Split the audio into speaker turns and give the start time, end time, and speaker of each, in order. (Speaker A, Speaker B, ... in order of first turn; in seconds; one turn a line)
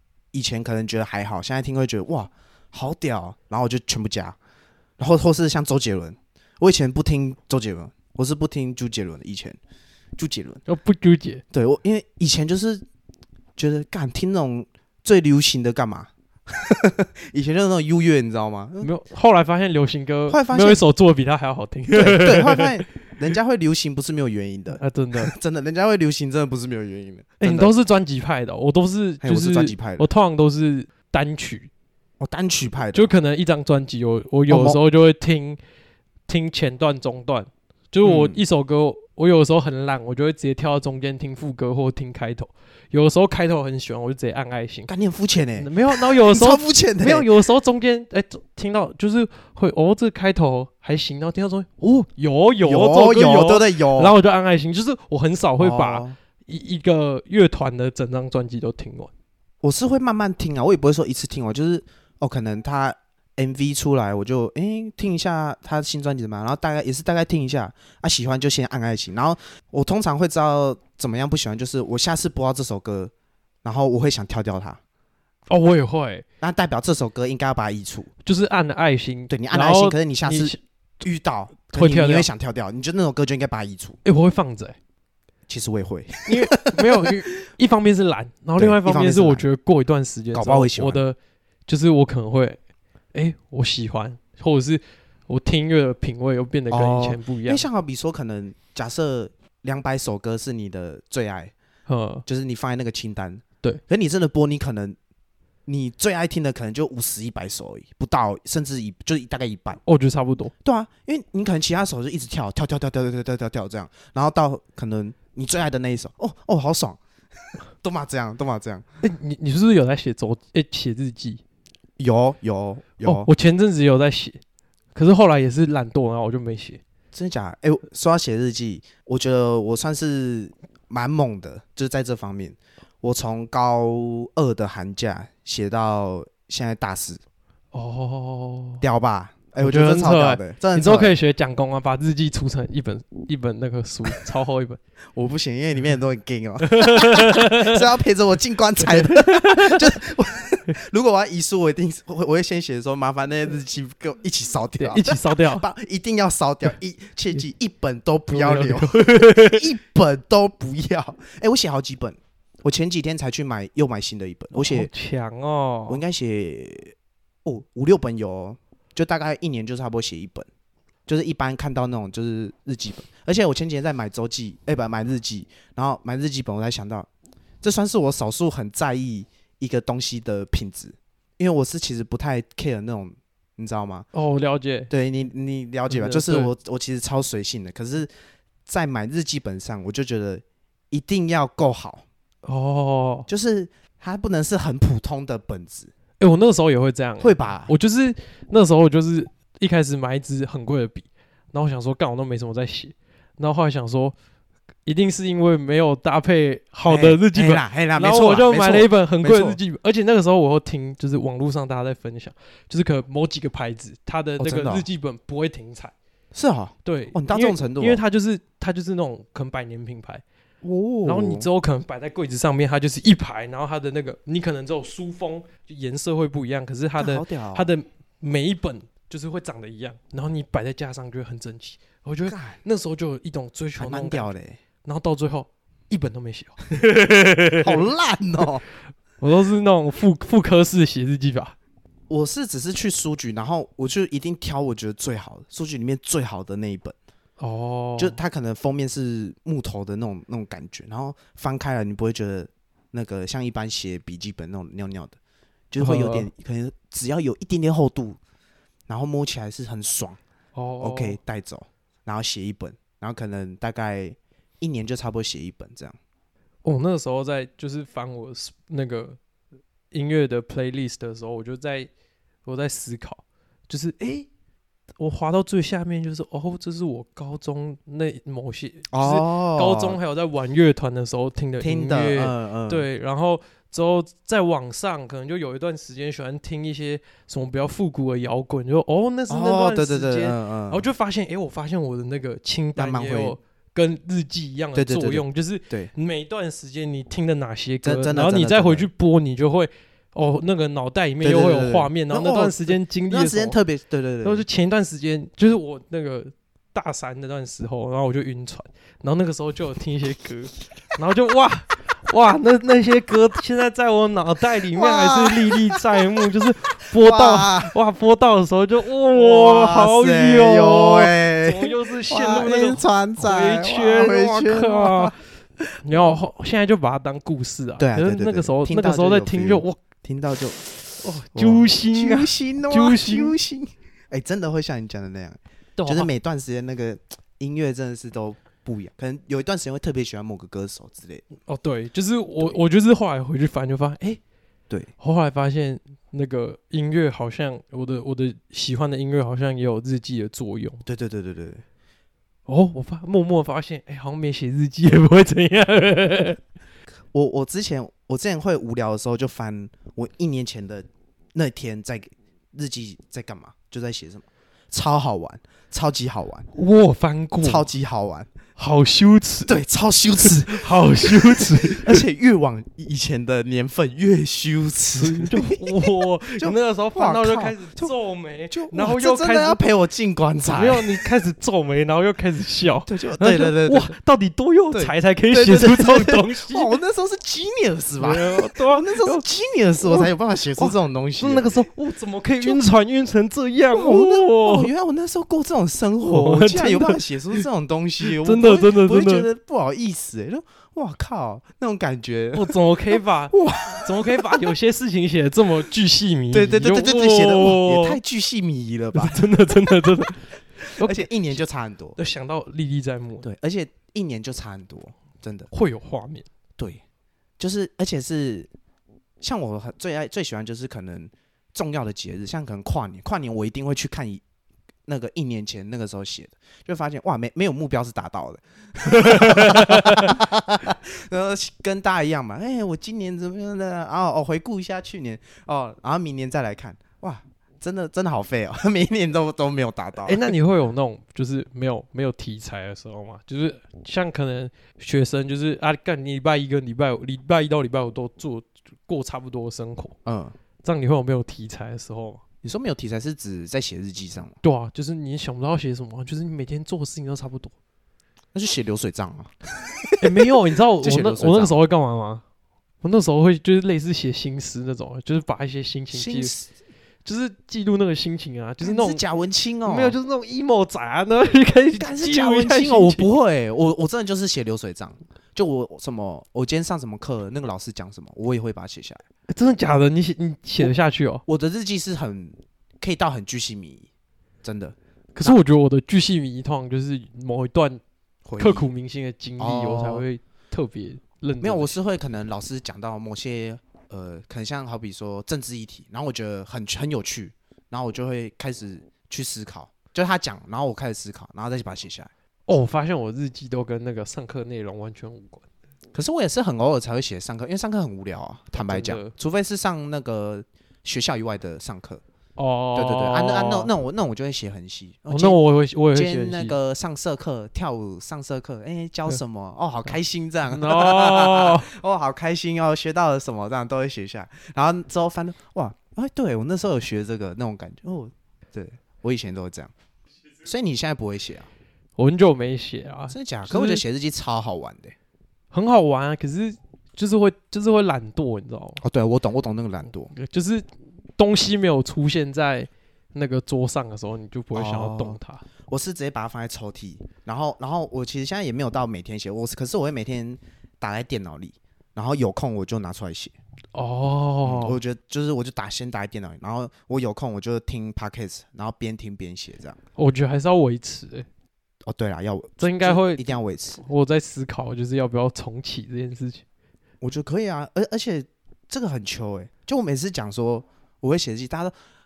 Speaker A: 0.3-4.4
Speaker A: 5.0-9.6
Speaker A: 10.2-10.6
Speaker B: 10.7-11.4
Speaker A: 11.5-12.8
Speaker A: 13.6-18.9
Speaker B: 18.8-22.8
Speaker A: 20.3-20.8
Speaker A: 21.9-27.7
Speaker B: 24.8-25.3
Speaker B: 27.4-31.7
Speaker A: 29.2-30.1
Speaker A: 32.2-33.1
Speaker B: 32.9-35.6
Speaker A: 34.5-34.8
Speaker B: 36.3-44.9
Speaker A: 38.0-38.4
Speaker A: 44.9-47.3
Speaker B: 45.6-59.1
Speaker A: 52.6-54.1
Speaker A: 55.6-56.1
Speaker A: 59.6-73.1
Speaker A: 73.6-74.8
Speaker B: 75.5-76.2
Speaker A: 76.4-78.1
Speaker B: 78.2-80.6
Speaker A: 79.3-84.0
Speaker B: 81.7-82.3
Speaker B: 84.0-84.8
Speaker A: 85.5-87.1
Speaker B: 86.2-91.2
Speaker A: 88.6-89.4
Speaker A: 90.3-91.0
Speaker B: 91.7-92.6
Speaker B: 93.1-97.6
Speaker A: 96.7-101.5
Speaker B: 101.9-102.2
Speaker A: 102.2-105.0
Speaker A: 105.7-109.8
Speaker B: 109.8-110.5
Speaker A: 110.6-117.0
Speaker A: 117.5-118.8
Speaker B: 119.0-121.4
Speaker A: 122.0-123.3
Speaker B: 123.0-124.4
Speaker B: 124.9-126.8
Speaker A: 127.1-137.2
Speaker B: 137.7-138.8
Speaker A: 138.8-141.1
Speaker B: 139.6-144.8
Speaker A: 145.1-164.9
Speaker B: 146.6-147.8
Speaker B: 148.8-149.9
Speaker B: 154.8-155.6
Speaker B: 158.3-159.7
Speaker B: 164.5-166.0
Speaker A: 165.9-170.5
Speaker A: 171.1-177.1
Speaker A: 177.6-184.1
Speaker B: 184.1-184.9
Speaker A: 184.9-188.1
Speaker B: 185.9-186.5
Speaker A: 188.7-192.0
Speaker B: 192.4-193.3
Speaker A: 193.3-195.9
Speaker B: 196.2-204.1
Speaker A: 197.2-197.7
Speaker B: 204.8-215.9
Speaker A: 206.9-209.6
Speaker A: 214.4-214.9
Speaker A: 216.3-218.0
Speaker B: 216.8-220.2
Speaker A: 220.6-221.5
Speaker B: 221.0-234.3
Speaker A: 227.0-227.7
Speaker A: 232.3-232.6
Speaker A: 233.8-234.6
Speaker B: 234.8-237.8
Speaker A: 237.6-238.6
Speaker B: 239.2-241.5
Speaker A: 242.1-246.9
Speaker B: 247.4-248.2
Speaker A: 248.0-255.2
Speaker A: 255.7-258.2
Speaker B: 255.8-256.3
Speaker A: 258.9-260.2
Speaker B: 260.5-261.2
Speaker A: 260.8-266.0
Speaker B: 266.6-269.2
Speaker B: 269.9-271.9
Speaker B: 272.4-274.3
Speaker B: 275.0-303.6
Speaker A: 278.9-280.0
Speaker A: 281.6-282.9
Speaker A: 289.3-290.9
Speaker A: 292.8-293.4
Speaker A: 294.7-295.9
Speaker A: 297.8-298.9
Speaker A: 301.2-304.4
Speaker B: 304.2-325.1
Speaker A: 314.7-316.3
Speaker A: 316.9-317.7
Speaker A: 319.1-326.1
Speaker B: 325.8-329.8
Speaker A: 327.8-341.2
Speaker B: 331.0-333.4
Speaker B: 335.8-336.1
Speaker B: 341.4-344.2
Speaker B: 345.0-350.8
Speaker A: 350.9-351.6
Speaker B: 352.5-356.4
Speaker A: 357.1-366.5
Speaker B: 366.5-367.7
Speaker A: 367.4-368.3
Speaker B: 368.6-369.6
Speaker A: 369.4-377.9
Speaker B: 370.2-372.0
Speaker B: 374.9-379.6
Speaker A: 378.5-380.9
Speaker B: 380.5-386.7
Speaker A: 382.9-383.9
Speaker A: 384.7-391.7
Speaker B: 388.0-389.2
Speaker B: 389.8-394.7
Speaker A: 393.7-404.5
Speaker B: 396.0-397.4
Speaker B: 398.1-399.3
Speaker B: 402.3-408.0
Speaker A: 406.3-410.1
Speaker B: 408.9-411.4
Speaker A: 410.6-412.0
Speaker B: 411.9-413.3
Speaker A: 413.2-415.5
Speaker B: 415.5-416.2
Speaker A: 417.4-418.5
Speaker A: 419.2-424.2
Speaker A: 424.9-440.3
Speaker B: 428.8-430.2
Speaker B: 440.0-449.9
Speaker A: 450.0-450.3
Speaker B: 450.6-452.2
Speaker A: 452.4-454.4
Speaker B: 454.4-457.5
Speaker A: 458.3-461.6
Speaker B: 460.0-462.2
Speaker B: 462.8-466.3
Speaker A: 465.9-466.5
Speaker B: 467.0-469.0
Speaker A: 468.6-470.0
Speaker B: 469.6-473.1
Speaker A: 471.7-479.0
Speaker B: 479.3-481.2
Speaker A: 481.2-483.9
Speaker A: 484.4-485.4
Speaker B: 485.1-487.8
Speaker A: 488.2-488.7
Speaker B: 488.4-491.8
Speaker A: 489.4-490.1
Speaker A: 491.4-502.1
Speaker B: 502.5-505.4
Speaker A: 505.9-512.0
Speaker B: 508.5-509.1
Speaker B: 512.4-513.7
Speaker A: 512.7-515.4
Speaker B: 515.1-516.6
Speaker A: 515.9-529.7
Speaker B: 520.5-521.7
Speaker A: 530.4-531.5
Speaker B: 532.0-533.8
Speaker A: 533.1-534.9
Speaker B: 535.5-538.8
Speaker A: 538.8-540.1
Speaker B: 540.1-540.6
Speaker B: 541.2-545.4
Speaker A: 544.5-553.3
Speaker B: 553.7-554.8
Speaker A: 554.4-559.8
Speaker B: 560.0-561.3
Speaker A: 561.9-563.8
Speaker B: 562.6-566.4
Speaker A: 567.0-571.7